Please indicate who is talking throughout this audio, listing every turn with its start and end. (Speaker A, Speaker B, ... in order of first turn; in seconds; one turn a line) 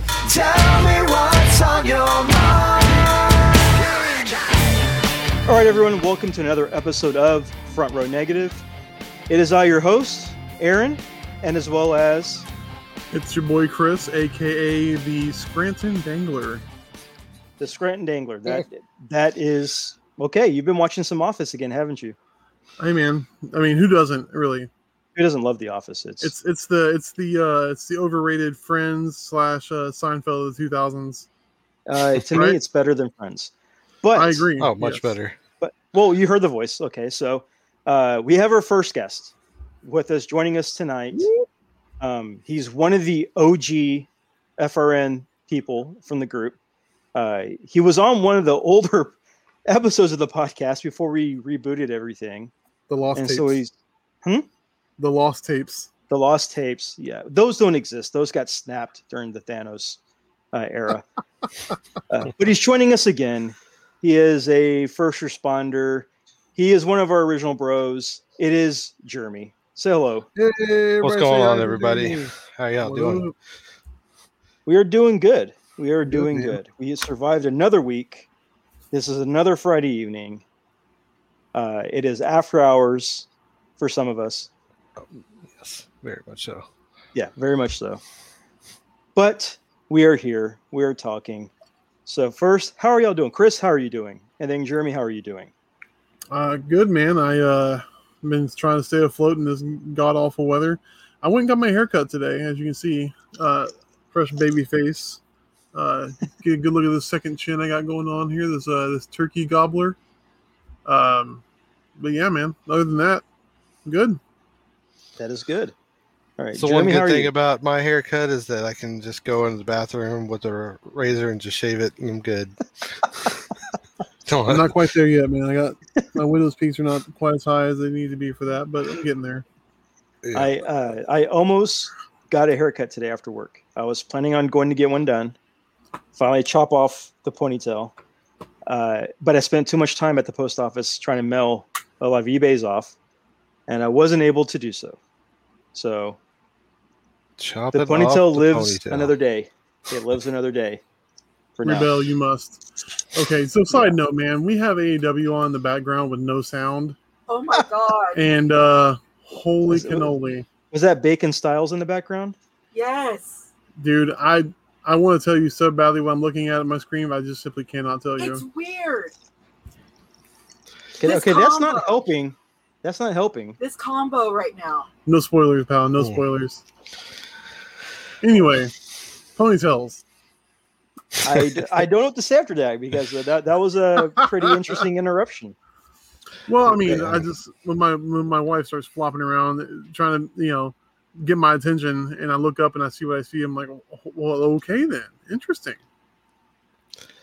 Speaker A: 0.2-4.8
Speaker B: 5.5-8.6
Speaker B: 9.3-12.4
Speaker C: 13.1-16.6
Speaker B: 17.6-22.2
Speaker C: 22.8-24.7
Speaker B: 25.1-26.3
Speaker C: 26.2-31.3
Speaker B: 31.9-33.5
Speaker C: 32.3-32.6
Speaker B: 34.0-34.5
Speaker C: 34.1-35.1
Speaker D: 34.6-35.4
Speaker B: 35.6-41.3
Speaker C: 41.1-41.5
Speaker B: 42.0-46.6
Speaker B: 47.1-49.1
Speaker B: 49.7-52.5
Speaker C: 52.9-53.6
Speaker B: 53.1-53.7
Speaker C: 55.0-55.9
Speaker B: 56.1-60.0
Speaker B: 60.5-61.0
Speaker B: 62.1-70.3
Speaker C: 70.3-73.3
Speaker D: 71.0-73.3
Speaker B: 74.7-78.3
Speaker C: 76.1-76.6
Speaker B: 78.9-80.4
Speaker B: 81.5-84.5
Speaker D: 85.0-86.7
Speaker B: 87.1-88.0
Speaker B: 89.1-91.5
Speaker B: 92.0-95.5
Speaker C: 96.3-105.2
Speaker C: 105.7-110.0
Speaker C: 110.8-111.4
Speaker C: 112.0-113.2
Speaker C: 113.8-114.2
Speaker B: 115.2-115.7
Speaker B: 116.4-117.3
Speaker D: 116.5-123.4
Speaker D: 124.2-124.8
Speaker C: 124.5-129.4
Speaker D: 130.2-130.5
Speaker B: 130.3-135.3
Speaker B: 136.1-137.9
Speaker B: 138.7-142.9
Speaker B: 143.7-145.0
Speaker B: 145.7-146.2
Speaker D: 147.4-149.1
Speaker B: 147.7-150.8
Speaker B: 151.6-151.9
Speaker C: 151.6-156.9
Speaker B: 153.7-154.0
Speaker E: 157.3-158.2
Speaker C: 158.1-160.5
Speaker B: 159.7-160.1
Speaker B: 160.7-162.3
Speaker E: 162.7-163.5
Speaker C: 163.8-168.4
Speaker E: 168.2-169.1
Speaker B: 171.0-173.6
Speaker E: 171.0-172.0
Speaker E: 173.6-174.9
Speaker C: 175.1-176.6
Speaker D: 176.0-176.2
Speaker C: 178.2-178.7
Speaker C: 179.3-180.0
Speaker B: 181.2-185.6
Speaker C: 184.2-184.5
Speaker C: 186.5-195.8
Speaker D: 186.9-187.2